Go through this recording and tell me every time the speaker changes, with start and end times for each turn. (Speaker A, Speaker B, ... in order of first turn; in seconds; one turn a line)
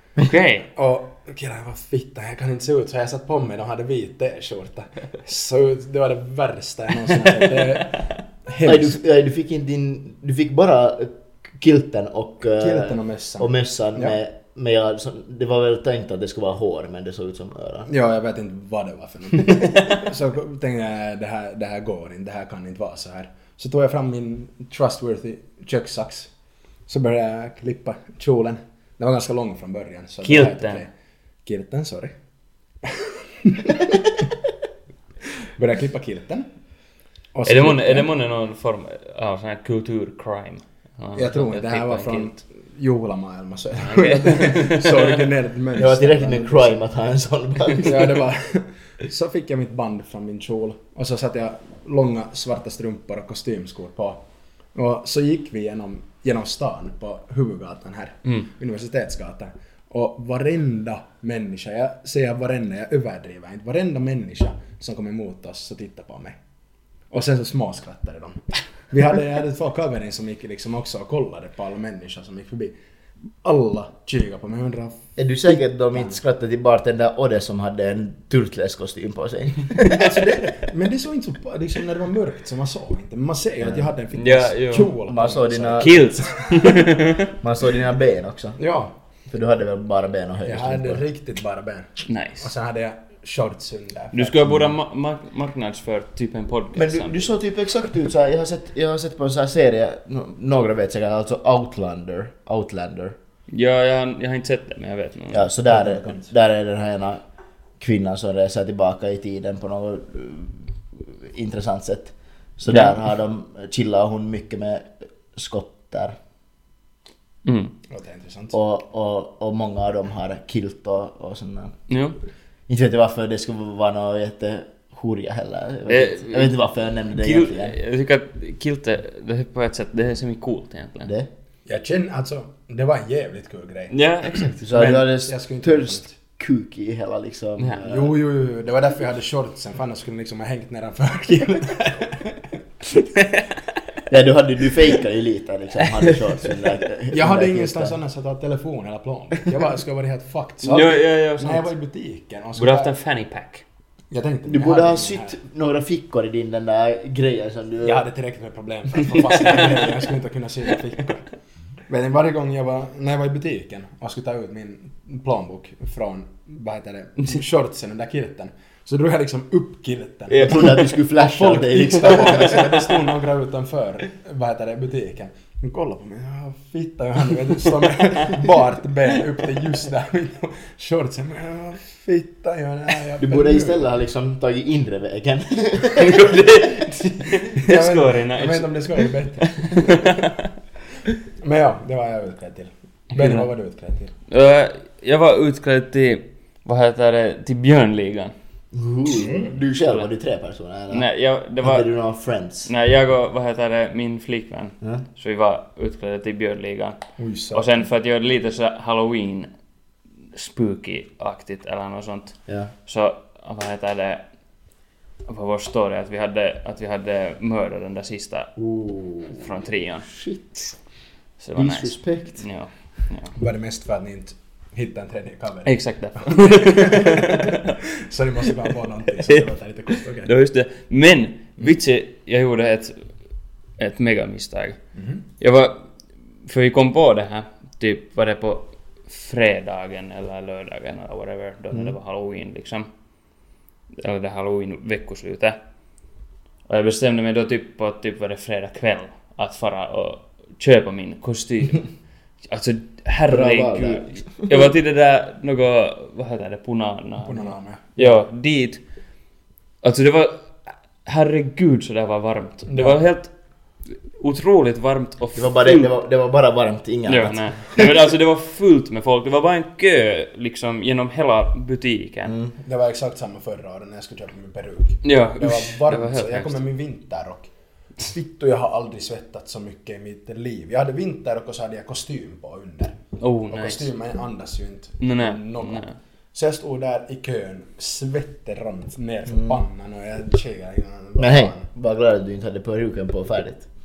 Speaker A: 0.2-0.7
Speaker B: 0.8-9.0
Speaker C: 8.6-17.9
Speaker B: 12.6-14.2
Speaker B: 17.9-26.3
Speaker B: 26.9-30.9
Speaker A: 30.2-30.8
Speaker B: 31.4-32.1
Speaker B: 32.8-34.3
Speaker B: 35.4-36.5
Speaker B: 37.3-38.1
Speaker A: 37.5-42.4
Speaker B: 41.1-46.8
Speaker A: 43.8-45.2
Speaker C: 45.8-48.2
Speaker B: 47.8-54.2
Speaker B: 54.8-66.4
Speaker B: 67.1-72.8
Speaker B: 73.4-75.0
Speaker C: 75.2-80.2
Speaker B: 75.9-76.2
Speaker B: 79.8-86.5
Speaker C: 83.6-83.9
Speaker A: 84.1-84.9
Speaker C: 85.1-86.3
Speaker A: 85.8-87.3
Speaker C: 87.3-88.6
Speaker B: 88.6-89.0
Speaker C: 89.3-91.0
Speaker B: 90.4-94.5
Speaker A: 92.1-92.5
Speaker A: 94.1-97.3
Speaker C: 96.8-103.2
Speaker A: 103.5-105.5
Speaker C: 105.3-107.2
Speaker B: 105.7-106.3
Speaker C: 107.8-116.2
Speaker A: 117.5-117.7
Speaker B: 117.9-118.6
Speaker C: 118.5-121.8
Speaker A: 121.9-122.2
Speaker C: 122.7-127.8
Speaker A: 125.9-126.6
Speaker A: 127.1-131.1
Speaker B: 131.7-133.9
Speaker A: 133.9-134.6
Speaker C: 134.6-138.1
Speaker B: 134.6-136.1
Speaker B: 137.8-142.6
Speaker A: 143.2-143.4
Speaker C: 144.1-148.0
Speaker B: 147.1-152.9
Speaker A: 150.6-151.7
Speaker A: 152.6-153.7
Speaker B: 154.1-155.4
Speaker C: 154.5-158.0
Speaker B: 157.8-161.3
Speaker A: 159.6-159.9
Speaker B: 161.9-183.8
Speaker A: 170.3-170.8
Speaker C: 170.4-172.7
Speaker C: 183.2-186.4
Speaker A: 185.9-190.5
Speaker B: 187.6-190.3
Speaker B: 191.4-194.1
Speaker A: 193.2-193.5
Speaker A: 194.3-198.3
Speaker C: 198.7-201.1
Speaker A: 200.9-201.9
Speaker C: 201.6-202.7
Speaker A: 202.7-207.0
Speaker B: 207.2-207.7
Speaker A: 207.5-209.5
Speaker A: 210.3-214.3
Speaker A: 215.3-218.6
Speaker C: 218.6-219.4
Speaker A: 219.4-220.1
Speaker C: 220.1-220.8
Speaker A: 221.4-223.3
Speaker C: 221.6-222.4
Speaker B: 223.3-230.3
Speaker A: 225.7-227.7
Speaker A: 229.3-233.1
Speaker A: 233.8-234.8
Speaker B: 234.9-235.2
Speaker A: 235.4-235.8
Speaker A: 236.5-242.9
Speaker A: 244.0-245.6
Speaker A: 246.7-251.9
Speaker A: 252.4-258.8
Speaker C: 253.3-254.3
Speaker B: 257.2-258.0
Speaker A: 259.8-260.5
Speaker A: 261.1-263.3
Speaker B: 262.7-263.0
Speaker A: 264.2-265.9
Speaker C: 265.4-267.9
Speaker A: 267.1-272.4
Speaker C: 272.3-272.5
Speaker B: 272.6-277.5
Speaker A: 275.0-276.6
Speaker B: 278.0-291.7
Speaker A: 283.2-283.9
Speaker A: 285.0-285.9
Speaker C: 291.2-293.7